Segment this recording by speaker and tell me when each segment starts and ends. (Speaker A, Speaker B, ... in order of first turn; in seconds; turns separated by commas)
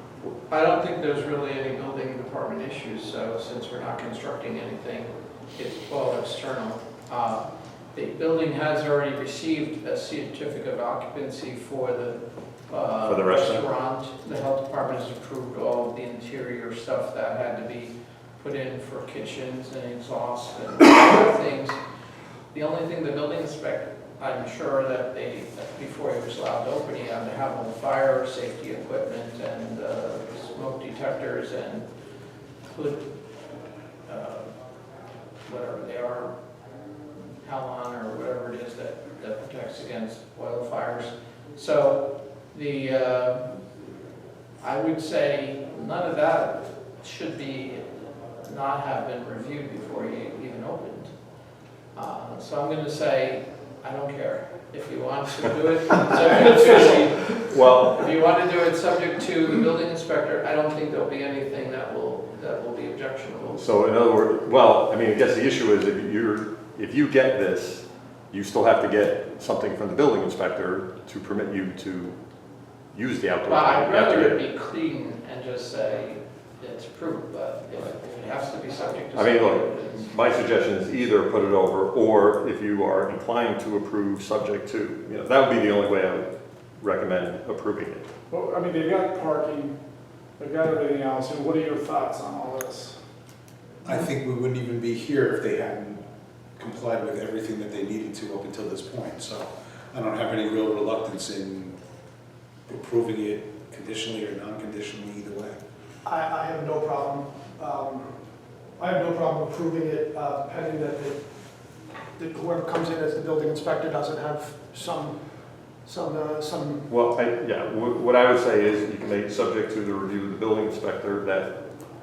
Speaker A: 0.5-21.8, Speaker B: 13.1-13.7, Speaker A: 22.5-31.9, Speaker A: 32.7-33.1, Speaker A: 34.1-34.5, Speaker A: 35.5-36.3, Speaker A: 37.4-43.6, Speaker A: 44.6-47.9, Speaker A: 48.4-51.1, Speaker A: 52.0-63.7, Speaker C: 56.2-56.6, Speaker B: 56.6-58.0, Speaker B: 63.6-72.2, Speaker B: 72.9-74.4, Speaker A: 73.5-80.1, Speaker B: 79.1-88.0, Speaker D: 88.3-89.8, Speaker D: 90.4-93.0, Speaker E: 93.8-96.0, Speaker E: 96.6-101.8, Speaker E: 102.7-105.6, Speaker C: 106.0-108.1, Speaker C: 108.8-111.2, Speaker C: 112.2-115.2, Speaker C: 115.9-116.9, Speaker B: 116.9-121.5